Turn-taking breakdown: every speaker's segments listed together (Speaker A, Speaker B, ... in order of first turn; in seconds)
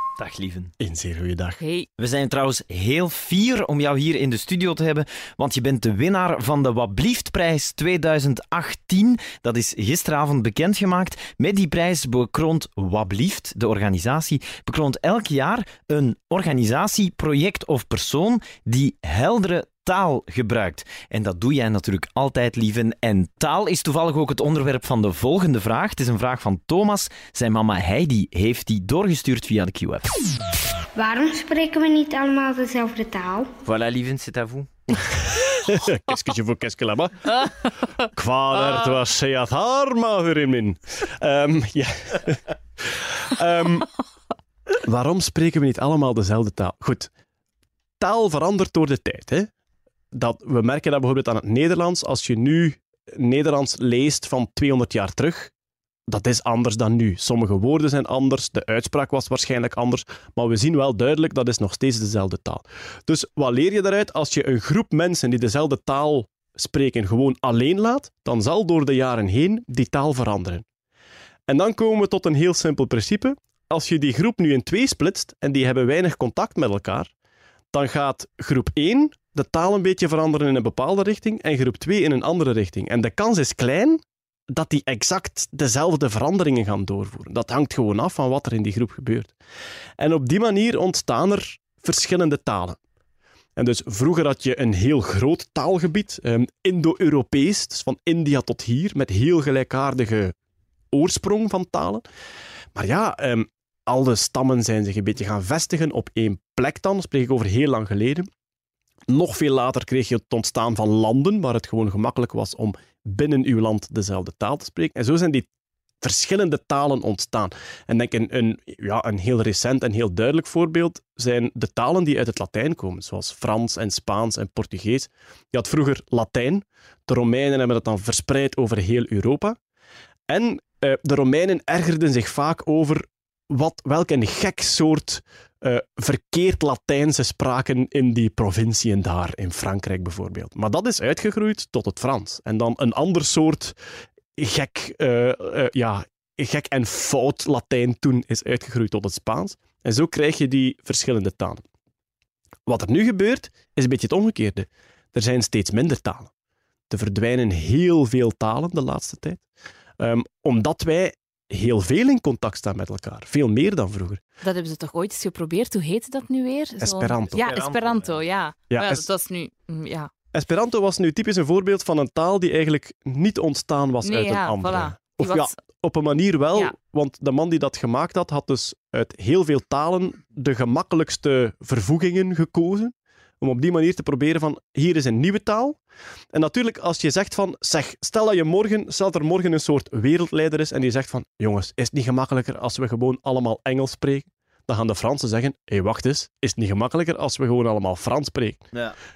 Speaker A: 0.2-0.7, 2.0-30.1, 33.6-34.7, 167.3-168.2
Speaker B: 0.8-1.6, 35.3-37.5, 38.0-42.4, 43.0-43.9, 44.7-47.1, 48.0-49.5, 50.1-55.5, 56.1-70.6, 71.5-77.1, 77.7-84.0, 84.5-89.3, 90.0-92.8, 93.5-100.3, 100.9-102.0, 102.7-108.3, 109.1-115.5, 116.0-129.6, 130.3-143.8, 144.4-151.6, 152.7-156.3, 156.9-159.4, 160.0-164.2, 166.8-167.6, 168.7-169.1, 170.3-185.8, 186.3-198.7
Speaker C: 1.6-1.9, 164.4-170.1, 174.0-175.5
Speaker D: 30.9-33.5